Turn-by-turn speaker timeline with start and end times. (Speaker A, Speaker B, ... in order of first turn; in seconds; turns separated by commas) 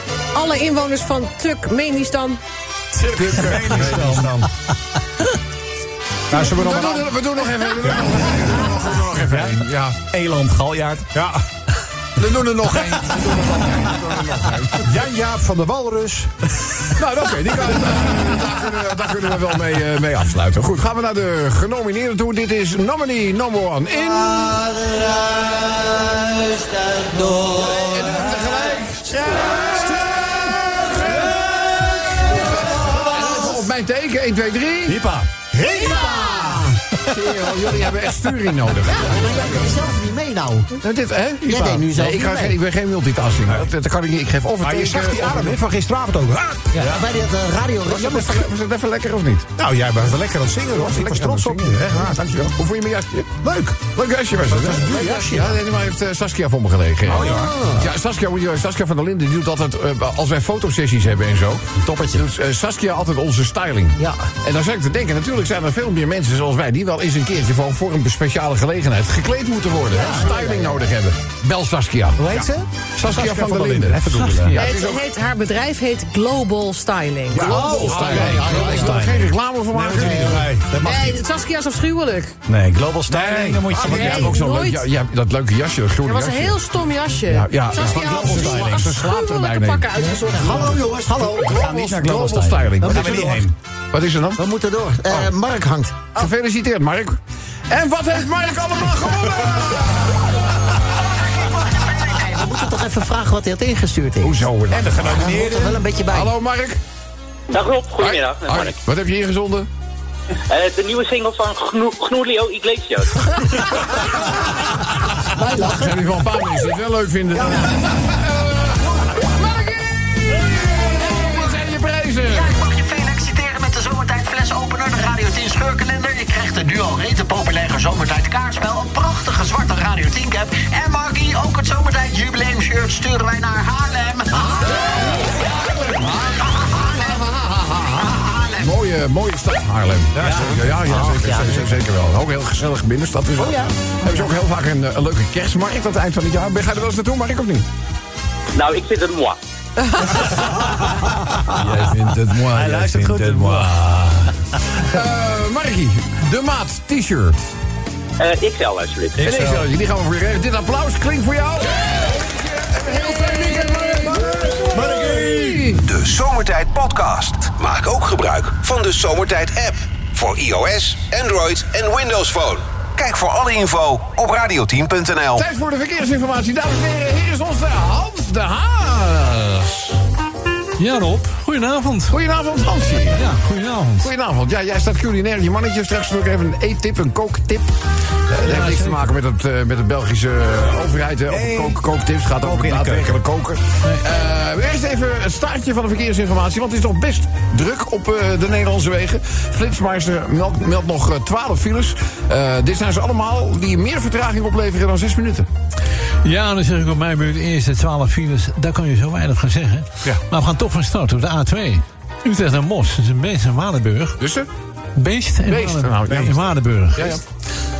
Speaker A: 0.3-2.4, Speaker B: 2.9-4.5, Speaker B: 6.3-7.1, Speaker C: 6.3-10.0, Speaker B: 7.8-9.6, Speaker D: 10.1-11.1, Speaker B: 11.1-11.4, Speaker C: 12.2-14.8, Speaker B: 14.8-16.3, Speaker C: 16.9-24.7, Speaker C: 27.4-35.0, Speaker B: 34.9-36.7, Speaker E: 36.0-36.5, Speaker C: 37.1-39.8, Speaker E: 39.1-40.6, Speaker C: 40.8-45.6, Speaker E: 41.5-42.5, Speaker B: 44.6-47.0, Speaker C: 47.8-49.5, Speaker B: 49.6-52.5, Speaker C: 50.7-72.5, Speaker B: 53.4-53.9, Speaker B: 54.5-55.5, Speaker D: 54.9-55.4, Speaker D: 57.1-57.9, Speaker B: 57.1-57.6, Speaker D: 61.8-62.2, Speaker C: 73.0-75.1, Speaker B: 73.0-74.5, Speaker D: 74.2-74.5, Speaker A: 74.5-77.5, Speaker C: 77.3-80.5, Speaker D: 77.3-79.3, Speaker B: 77.4-79.1, Speaker B: 79.7-80.7, Speaker D: 80.0-81.2, Speaker A: 80.7-82.3, Speaker D: 82.5-84.4, Speaker C: 83.1-86.6, Speaker A: 83.7-84.9, Speaker A: 86.0-90.7, Speaker C: 87.3-94.4, Speaker D: 87.8-89.0, Speaker E: 90.2-91.2, Speaker D: 90.3-93.5, Speaker E: 94.4-95.3, Speaker C: 95.0-95.3, Speaker C: 96.1-100.2, Speaker E: 103.1-104.3, Speaker C: 104.2-106.8, Speaker D: 104.8-105.4, Speaker B: 105.2-105.7, Speaker E: 105.7-106.2, Speaker F: 107.5-108.8, Speaker C: 108.0-109.7, Speaker F: 110.5-113.5, Speaker C: 114.7-119.8, Speaker C: 120.7-122.6, Speaker E: 122.5-134.4, Speaker C: 134.4-147.7, Speaker B: 140.2-140.9, Speaker E: 140.2-141.7, Speaker E: 143.4-143.7, Speaker F: 148.5-149.4, Speaker A: 149.9-150.2, Speaker D: 151.4-151.9, Speaker C: 151.5-154.3, Speaker D: 152.5-154.1, Speaker C: 154.8-157.4, Speaker F: 158.2-159.2, Speaker C: 159.2-165.8, Speaker B: 159.2-159.6, Speaker B: 164.2-165.8, Speaker G: 165.8-175.4, Speaker C: 175.3-180.0, Speaker H: 180.8-182.1, Speaker C: 182.1-183.2, Speaker H: 183.2-184.1, Speaker C: 184.0-187.7, Speaker C: 188.3-205.5, Speaker H: 188.5-189.0, Speaker D: 191.3-191.8, Speaker D: 192.4-193.2, Speaker H: 206.2-214.1, Speaker C: 214.2-214.5, Speaker H: 215.0-217.2, Speaker C: 215.4-216.4, Speaker B: 216.1-216.4, Speaker C: 216.9-217.2